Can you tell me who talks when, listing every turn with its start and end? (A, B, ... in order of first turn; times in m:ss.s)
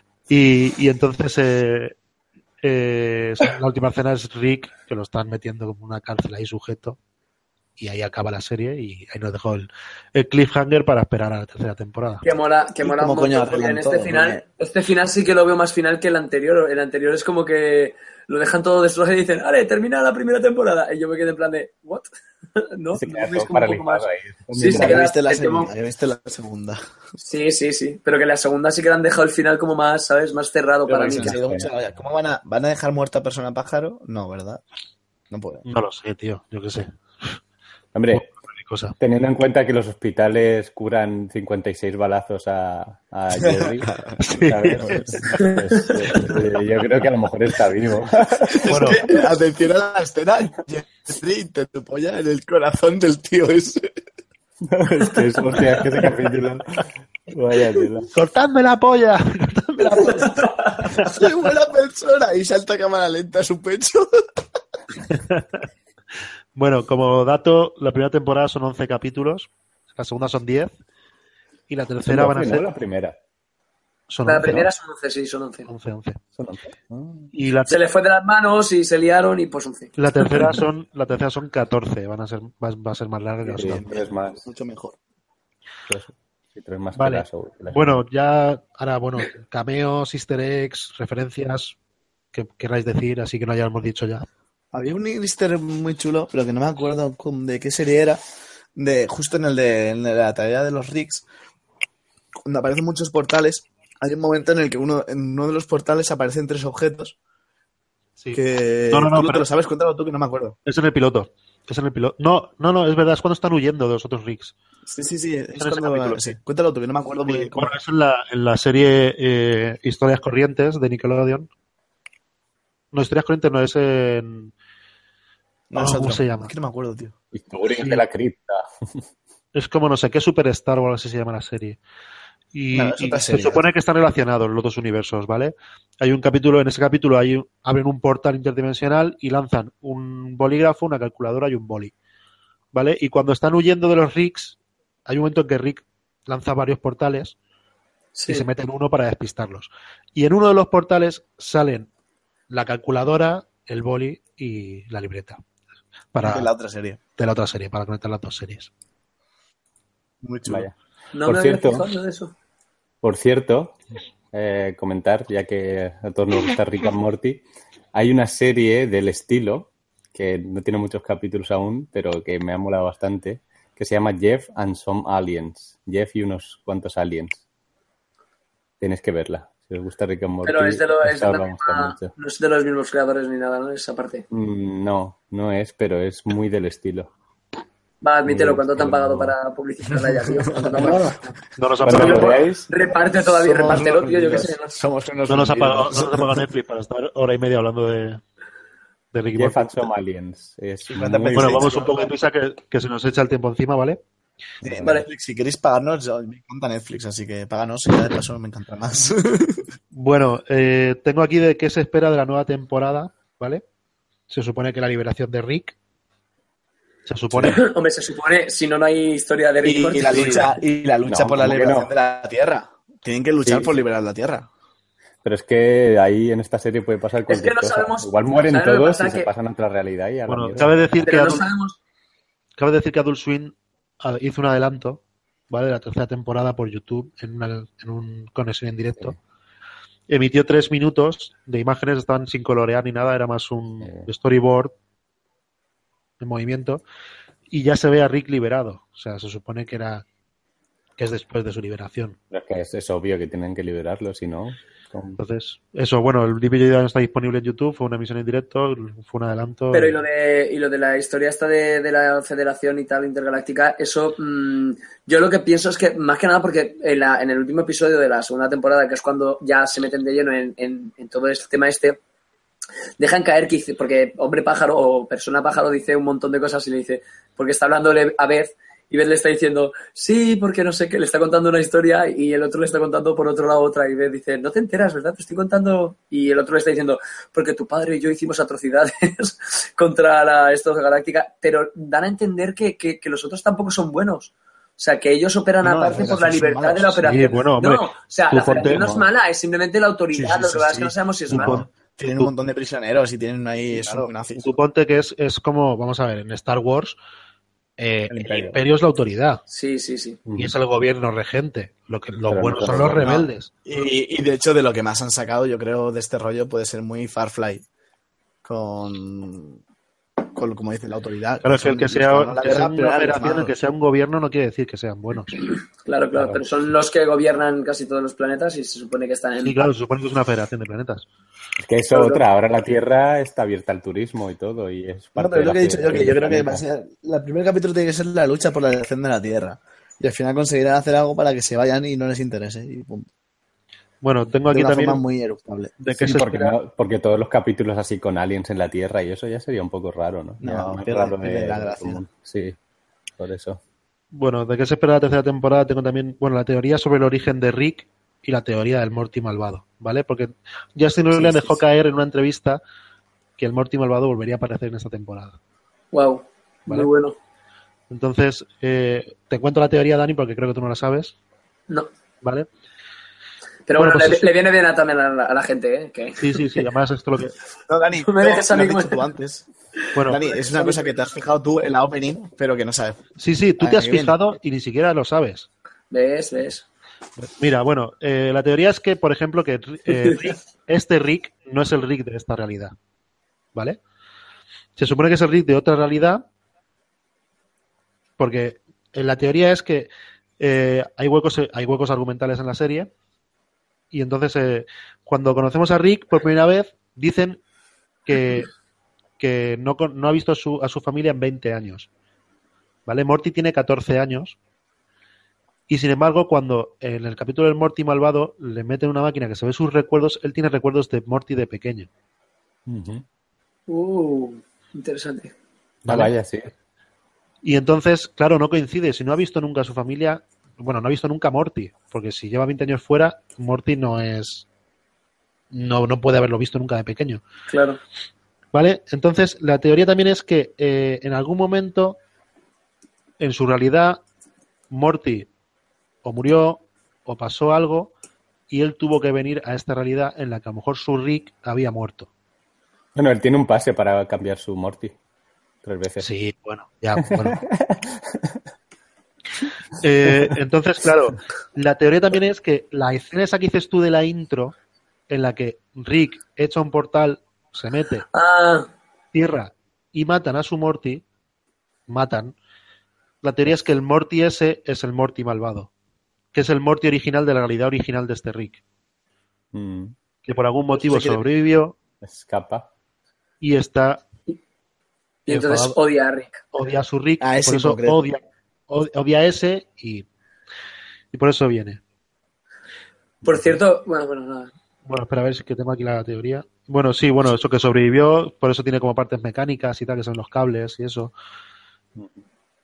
0:00.3-0:01.9 A
0:02.6-0:07.0 A
0:07.8-0:12.2 A
0:12.2-0:25.7 B
0:12.8-0:14.4 C
0:23.0-0:25.0 D
0:24.5-0:26.8 C
0:27.2-0:31.4 B
0:30.9-0:34.6 C
0:31.2-0:31.7 D
0:35.3-0:35.6 C
0:35.6-0:37.4 A
0:37.9-0:38.3 D
0:38.1-0:39.0 A
0:39.0-0:48.9 D
0:43.4-0:44.2 C
0:44.2-0:45.1 A
0:44.8-0:45.6 C
0:45.4-0:46.0 B
0:46.1-0:46.4 C
0:48.5-0:53.8 C
0:48.7-0:49.0 A
0:54.6-0:58.1 D
0:58.1-1:01.1 A
1:00.0-1:00.9 B
1:01.0-1:04.1 C
1:05.1-1:05.6 A
1:06.5-1:10.7 A
1:11.7-1:12.6 A
1:12.0-1:13.2 D
1:14.1-1:14.7 A
1:14.2-1:15.7 B
1:15.7-1:16.2 A
1:16.4-1:17.3 D
1:17.3-1:17.8 A
1:17.7-1:19.9 B
1:20.0-1:23.9 A
1:23.5-1:24.4 D
1:23.6-1:25.0 C
1:25.9-1:27.9 D
1:27.0-1:31.8 A
1:32.3-1:34.2 A
1:34.7-1:38.2 C
1:38.8-1:41.2 C
1:42.4-1:47.1 C
1:48.2-1:49.4 A
1:48.3-1:50.6 C
1:50.6-1:54.5 A
1:54.9-1:57.8 C
1:55.6-1:56.4 A
1:57.2-2:01.5 A
2:02.9-2:04.5 A
2:05.7-2:07.1 C
2:05.7-2:06.5 A
2:07.3-2:08.7 D
2:07.8-2:08.0 A
2:09.5-2:11.8 A
2:12.5-2:21.9 A
2:12.7-2:13.6 C
2:22.7-2:27.4 A
2:28.1-2:28.5 B
2:28.3-2:31.9 A
2:32.5-2:35.4 A
2:36.1-2:36.5 A
2:36.2-2:37.0 C
2:37.2-2:38.7 A
2:40.2-2:40.7 C
2:40.5-2:40.7 D
2:41.1-2:42.3 B
2:41.2-2:41.9 D
2:43.0-2:43.8 D
2:44.3-2:47.4 D
2:47.9-2:57.4 D
2:58.8-3:02.1 D
3:00.4-3:04.2 B
3:04.3-3:07.1 D
3:08.0-3:11.1 B
3:08.2-3:09.3 D
3:10.4-3:11.2 C
3:11.6-3:12.4 A
3:11.8-3:12.7 D
3:11.8-3:14.7 B
3:13.2-3:16.4 C
3:15.3-3:18.2 A
3:19.1-3:19.9 A
3:19.3-3:21.7 D
3:20.9-3:22.1 C
3:21.3-3:24.0 A
3:24.6-3:29.6 C
3:24.6-3:25.0 D
3:29.9-3:33.6 A
3:34.3-3:35.8 A
3:37.1-3:37.6 A
3:37.4-3:40.6 B
3:39.6-3:44.5 C
3:40.1-3:40.5 A
3:41.1-3:41.9 D
3:43.4-3:43.7 D
3:45.2-3:51.1 D
3:47.3-3:49.3 B
3:50.3-3:51.4 A
3:51.0-3:51.8 B
3:52.6-3:59.2 A
4:00.1-4:04.7 A
4:03.8-4:04.1 D
4:06.2-4:06.8 A
4:07.5-4:10.0 A
4:11.0-4:12.2 A
4:12.3-4:15.2 D
4:15.2-4:20.0 A
4:19.7-4:32.0 B
4:33.0-5:01.6 B
4:55.6-4:57.1 C
4:57.0-4:58.9 A
4:58.6-4:59.1 D
5:00.2-5:04.5 C
5:01.3-5:02.3 A
5:04.4-5:07.0 A
5:07.8-5:09.4 A
5:08.1-5:08.6 D
5:09.5-5:10.2 B
5:10.2-5:10.5 D
5:10.3-5:13.5 A
5:12.3-5:13.3 D
5:13.6-5:17.6 C
5:18.4-5:19.6 C
5:20.3-5:23.5 C
5:21.4-5:25.3 A
5:25.4-5:29.7 B
5:26.1-5:26.4 D
5:29.4-5:31.1 A
5:31.6-5:36.6 D
5:31.9-5:32.2 B
5:35.2-5:43.1 C
5:44.0-5:45.0 A
5:44.5-5:45.7 C
5:45.8-5:46.6 A
5:45.9-5:52.6 D
5:50.4-5:52.0 C
5:53.2-5:53.6 D
5:54.1-6:02.6 A
6:01.1-6:01.6 C
6:03.4-6:05.4 A
6:05.9-6:07.1 B
6:07.9-6:11.1 A
6:12.2-6:12.5 A
6:13.7-6:16.6 B
6:13.8-6:14.3 A
6:16.2-6:17.4 A
6:17.7-6:19.4 C
6:18.0-6:19.1 B
6:19.9-6:20.2 A
6:20.0-6:23.0 C
6:20.1-6:21.1 B
6:23.2-6:25.5 A
6:23.6-6:24.1 C
6:25.9-6:26.6 B
6:27.2-6:32.7 A
6:29.9-6:30.3 B
6:33.5-6:33.8 A
6:34.8-6:36.2 A
6:38.2-6:42.9 A
6:43.9-6:47.4 A
6:48.0-6:48.5 A
6:49.2-6:51.9 A
6:52.8-6:54.4 A
6:55.7-7:01.9 A
7:02.7-7:03.0 D
7:03.7-7:05.3 B
7:05.8-7:06.1 A
7:05.8-7:06.5 D
7:07.4-7:14.4 A
7:15.5-7:17.2 A
7:17.5-7:17.8 B
7:18.5-7:22.0 A
7:23.2-7:24.0 A
7:24.7-7:25.3 A
7:26.0-7:27.9 A
7:28.5-7:32.1 A
7:32.9-7:34.9 D
7:35.6-7:36.1 D
7:36.0-7:37.4 A
7:37.0-7:38.4 D
7:39.8-7:44.5 A
7:45.1-7:48.0 A
7:48.1-7:48.7 B
7:49.1-7:51.0 A
7:51.9-7:52.3 A
7:53.2-7:55.7 A
7:56.3-7:58.6 A
7:59.5-7:59.9 D
8:00.2-8:01.8 A
8:00.7-8:01.2 C
8:02.0-8:02.7 D
8:03.4-8:04.0 A
8:05.2-8:06.4 B
8:05.3-8:05.8 A
8:06.5-8:10.0 A
8:07.2-8:08.0 C
8:11.1-8:11.8 A
8:13.2-8:14.5 B
8:14.8-8:21.1 A